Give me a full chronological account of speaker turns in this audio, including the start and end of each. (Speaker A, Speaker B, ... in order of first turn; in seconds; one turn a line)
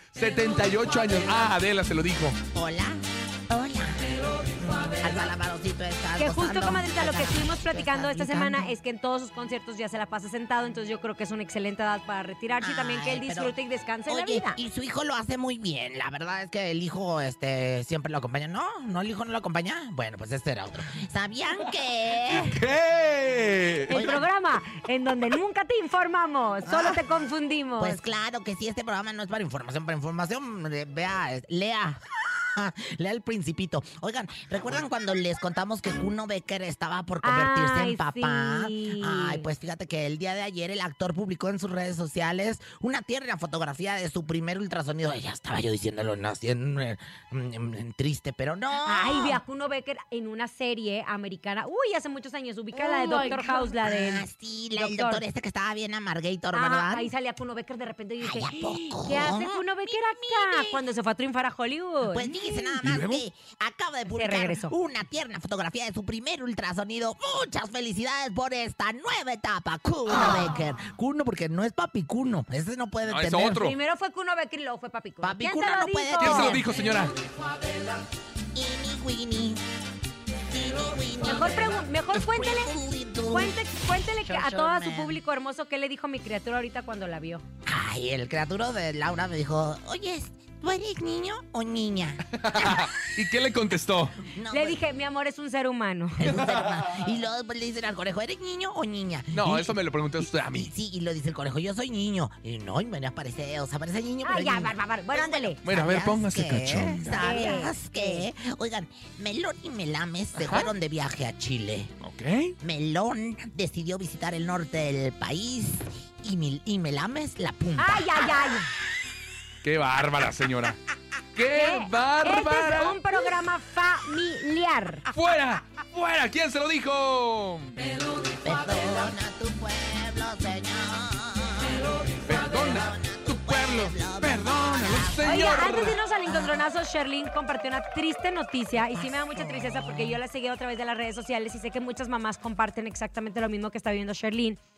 Speaker A: 0.1-2.4
Speaker B: 2.5-8.8
Speaker C: 6.2-14.6
Speaker B: 12.6-13.6
Speaker B: 14.1-22.6
Speaker A: 22.3-24.0
Speaker B: 23.9-24.2
Speaker C: 23.9-28.0
Speaker B: 26.6-27.0
Speaker B: 27.8-49.4
Speaker C: 37.2-39.5
Speaker C: 48.8-55.2
Speaker B: 52.7-57.1
Speaker C: 56.5-62.4
Speaker B: 58.2-60.8
Speaker B: 62.1-73.6
Speaker A: 62.8-63.2
Speaker C: 64.1-64.7
Speaker A: 73.1-73.8
Speaker C: 73.5-76.6
Speaker B: 75.2-76.7
Speaker A: 76.2-77.1
Speaker B: 78.5-79.6
Speaker B: 80.5-85.2
Speaker C: 81.2-82.7
Speaker C: 83.3-87.4
Speaker B: 87.7-92.9
Speaker A: 92.3-94.2
Speaker B: 94.3-94.8
Speaker C: 94.5-96.2
Speaker B: 96.2-111.9
Speaker A: 99.3-100.7
Speaker C: 104.2-105.6
Speaker A: 105.6-107.2
Speaker C: 107.1-108.2
Speaker A: 110.4-110.7
Speaker A: 112.0-112.5
Speaker B: 112.6-118.4
Speaker C: 117.8-118.7
Speaker A: 119.6-120.8
Speaker A: 121.4-123.0
Speaker C: 121.5-125.1
Speaker A: 125.1-127.8
Speaker B: 128.3-135.6
Speaker A: 132.3-136.0
Speaker C: 135.2-144.6
Speaker B: 138.9-140.2